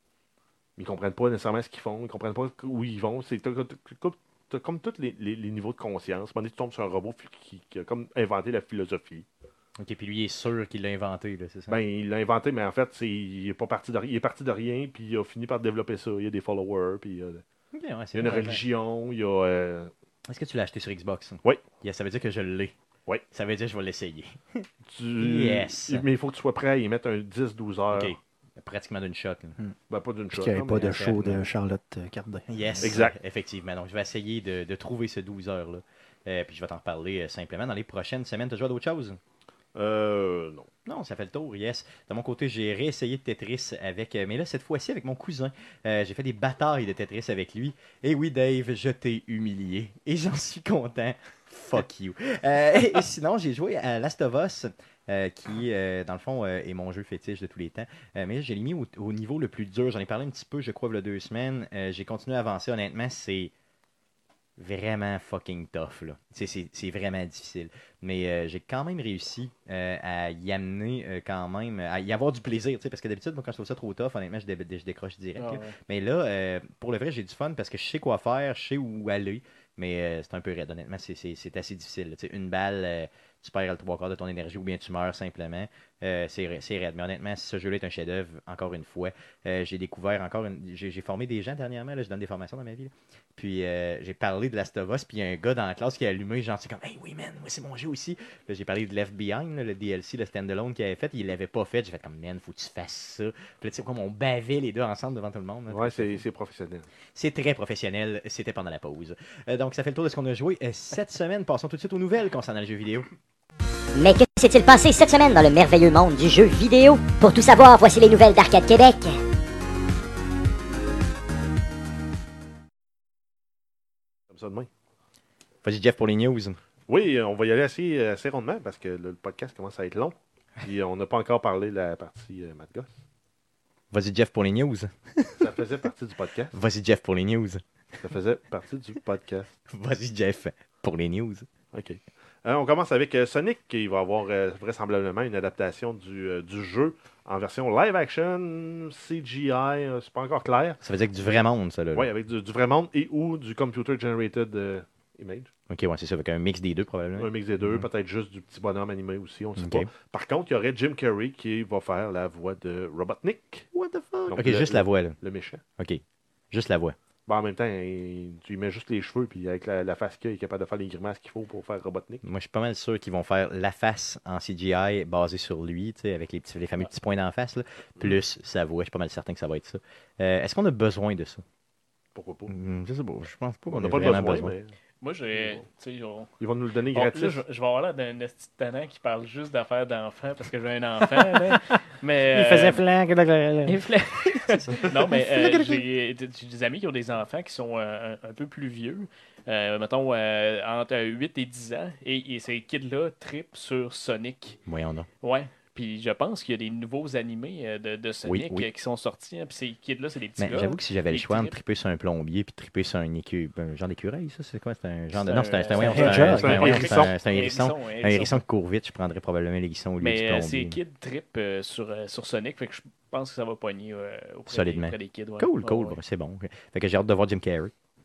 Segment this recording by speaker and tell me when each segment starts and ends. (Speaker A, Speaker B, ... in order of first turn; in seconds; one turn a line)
Speaker A: 0.8-9.3
Speaker B: 9.8-11.8
Speaker A: 11.7-17.4
Speaker B: 17.7-18.6
Speaker A: 18.1-19.9
Speaker B: 20.3-22.7
Speaker B: 23.3-24.7
Speaker A: 24.9-28.1
Speaker B: 25.2-26.1
Speaker B: 27.9-29.6
Speaker A: 29.9-31.4
Speaker C: 30.3-32.9
Speaker B: 32.5-39.2
Speaker A: 32.8-33.1
Speaker A: 39.8-40.7
Speaker B: 40.9-63.5
Speaker B: 64.6-106.2
Speaker D: 75.4-75.7
Speaker A: 105.7-106.9
Speaker B: 107.1-113.1
Speaker E: 114.0-119.2
Speaker A: 124.3-124.7
Speaker B: 125.6-126.6
Speaker A: 126.9-133.0
Speaker B: 133.9-135.5
Speaker A: 135.4-136.6
Speaker B: 136.5-137.6
Speaker A: 138.0-139.5
Speaker B: 139.7-141.5
Speaker A: 141.7-150.8
Speaker B: 150.8-152.1
Speaker A: 151.9-155.5
Speaker B: 155.7-157.9
Speaker A: 157.2-163.7
Speaker B: 159.6-159.9
Speaker B: 163.7-165.2
Speaker A: 164.3-165.6
Speaker B: 165.8-166.9
Speaker A: 167.3-172.2
Speaker B: 172.2-181.4
Speaker A: 182.1-182.5
Speaker B: 182.5-184.6
Speaker A: 183.7-184.8
Speaker D: 185.0-186.3
Speaker A: 186.4-187.4
Speaker D: 186.9-192.8
Speaker C: 192.3-193.8
Speaker D: 193.7-204.6
Speaker B: 194.6-195.8
Speaker B: 204.7-205.1
Speaker D: 205.2-211.6
Speaker B: 208.2-208.7
Speaker B: 210.4-220.8
Speaker D: 215.1-218.4
Speaker C: 215.8-216.9
Speaker A: 216.2-217.1
Speaker D: 220.0-226.0
Speaker B: 224.5-227.7